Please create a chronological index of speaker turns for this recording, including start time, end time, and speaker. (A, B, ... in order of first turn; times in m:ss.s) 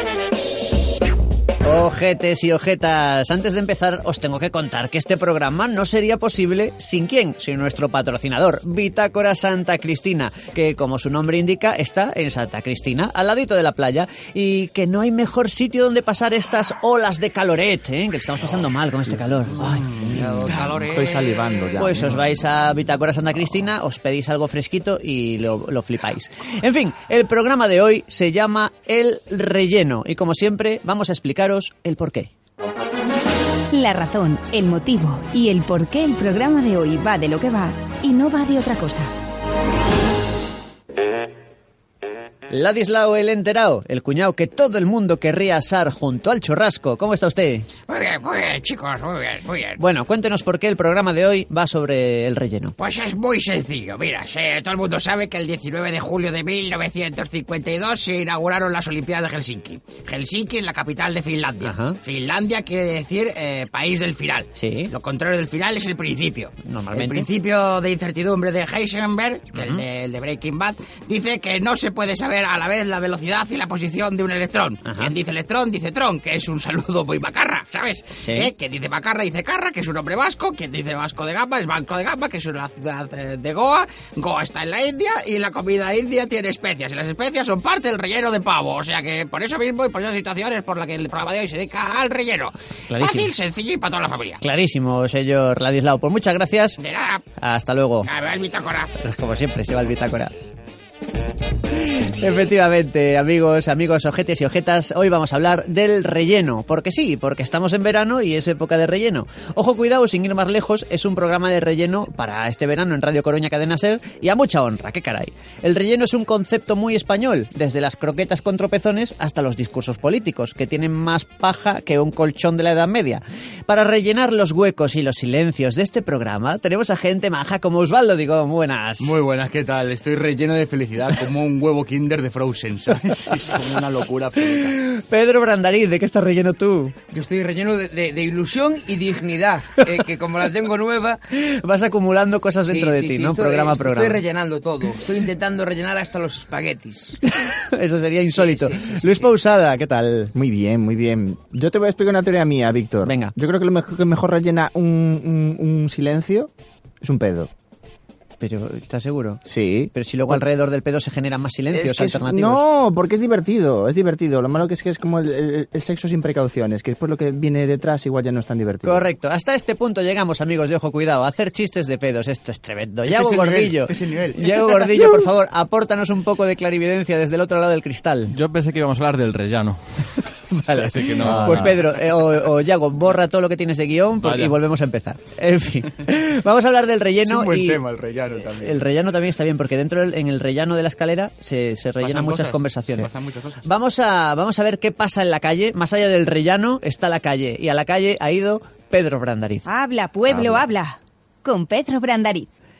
0:01.6-0:19.9 A
0:19.8-0:22.3 B
0:20.0-0:21.4 C
0:21.8-0:32.3 A
0:33.7-0:39.1 D
0:42.5-0:47.7 A
0:47.9-0:49.8 E
0:49.8-0:52.7 A
0:52.8-1:34.4 E
1:01.6-1:02.0 A
1:04.5-1:04.9 A
1:06.6-1:07.3 A
1:09.5-1:09.8 A
1:14.8-1:15.1 A
1:18.2-1:18.5 A
1:32.9-1:33.3 A
1:34.4-1:36.8 A
1:36.8-1:37.2 E
1:37.4-1:38.1 A
1:38.0-1:38.9 E
1:39.0-1:40.3 A
1:41.9-2:09.1 A
2:09.0-2:14.8 C
2:14.4-2:16.9 A
2:17.1-2:21.2 F
2:21.3-2:24.2 A
2:22.7-2:27.2 F
2:27.3-2:30.3 A
2:28.3-2:29.3 F
2:30.3-2:37.5 B
2:33.0-2:33.3 A
2:38.4-2:39.4 A
2:39.4-2:40.4 B
2:39.9-2:42.6 A
2:41.7-2:49.1 B
2:48.8-2:58.3 A
2:53.1-2:55.0 C
2:58.3-2:59.8 G
3:00.5-3:07.8 A
3:00.7-3:01.8 G
3:01.2-3:01.8 B
3:04.2-3:04.6 G
3:07.2-3:08.8 C
3:08.6-3:13.1 A
3:12.0-3:13.6 C
3:13.6-3:19.6 A
3:19.6-3:22.5 D
3:20.3-3:20.6 A